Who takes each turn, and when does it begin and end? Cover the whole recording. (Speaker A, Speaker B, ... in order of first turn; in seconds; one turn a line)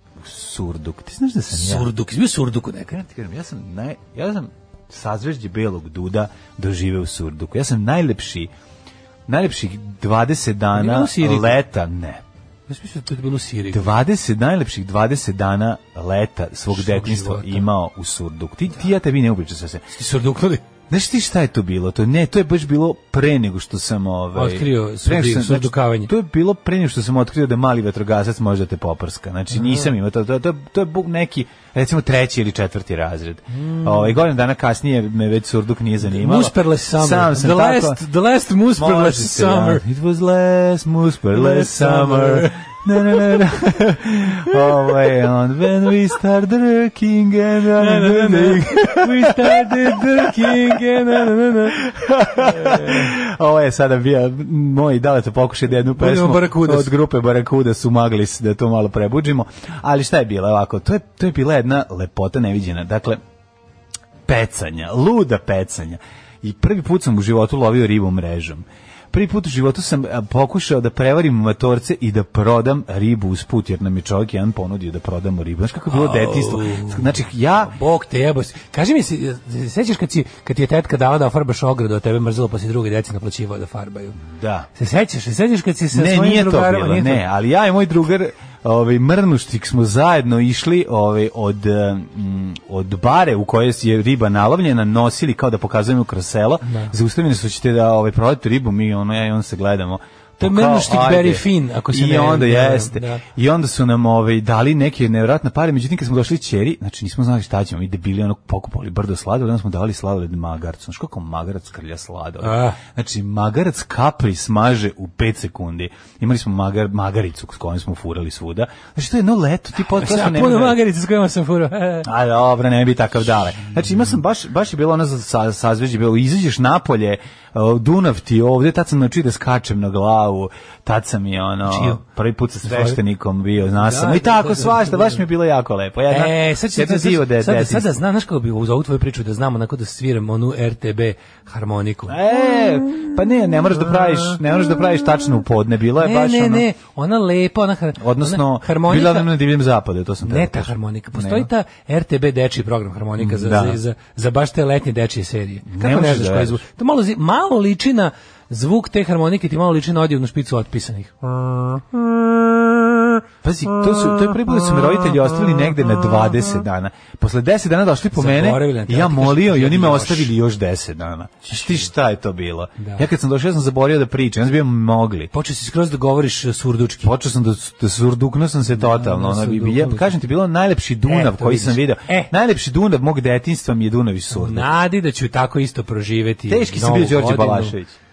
Speaker A: 0.2-1.9
Speaker B: 1.5-3.0
Speaker A: 2.9-8.5
Speaker A: 9.3-12.2
Speaker B: 10.7-11.6
Speaker B: 12.7-13.9
Speaker A: 13.7-19.9
Speaker B: 16.7-17.7
Speaker B: 19.9-20.6
Speaker A: 20.9-38.0
Speaker B: 24.3-26.1
Speaker B: 29.5-29.9
Speaker B: 33.5-34.2
Speaker B: 36.0-39.8
Speaker A: 38.7-51.2
Speaker B: 41.3-43.4
Speaker B: 44.6-45.0
Speaker B: 47.8-53.1
Speaker A: 51.8-63.2
Speaker B: 55.9-56.9
Speaker A: 64.3-77.7
Speaker B: 75.9-77.1
Speaker B: 77.6-84.2
Speaker A: 84.2-84.7
Speaker B: 84.8-87.2
Speaker A: 85.9-120.8
Speaker B: 96.6-96.9
Speaker B: 100.4-103.2
Speaker B: 112.4-112.8
Speaker B: 119.9-122.1
Speaker A: 122.0-138.0
Speaker B: 131.7-132.0
Speaker B: 132.6-133.0
Speaker B: 133.7-135.2
Speaker B: 136.1-142.2
Speaker A: 142.1-146.7
Speaker B: 143.8-144.3
Speaker B: 146.0-149.3
Speaker A: 148.0-151.5
Speaker B: 150.2-162.7
Speaker A: 153.2-153.8
Speaker A: 155.7-156.6
Speaker A: 163.4-175.3
Speaker B: 168.2-170.3
Speaker B: 171.5-171.9
Speaker B: 172.8-173.1
Speaker B: 175.3-177.1
Speaker A: 177.0-184.7
Speaker B: 178.7-180.2
Speaker B: 181.1-182.3
Speaker B: 184.3-187.8
Speaker A: 186.5-188.0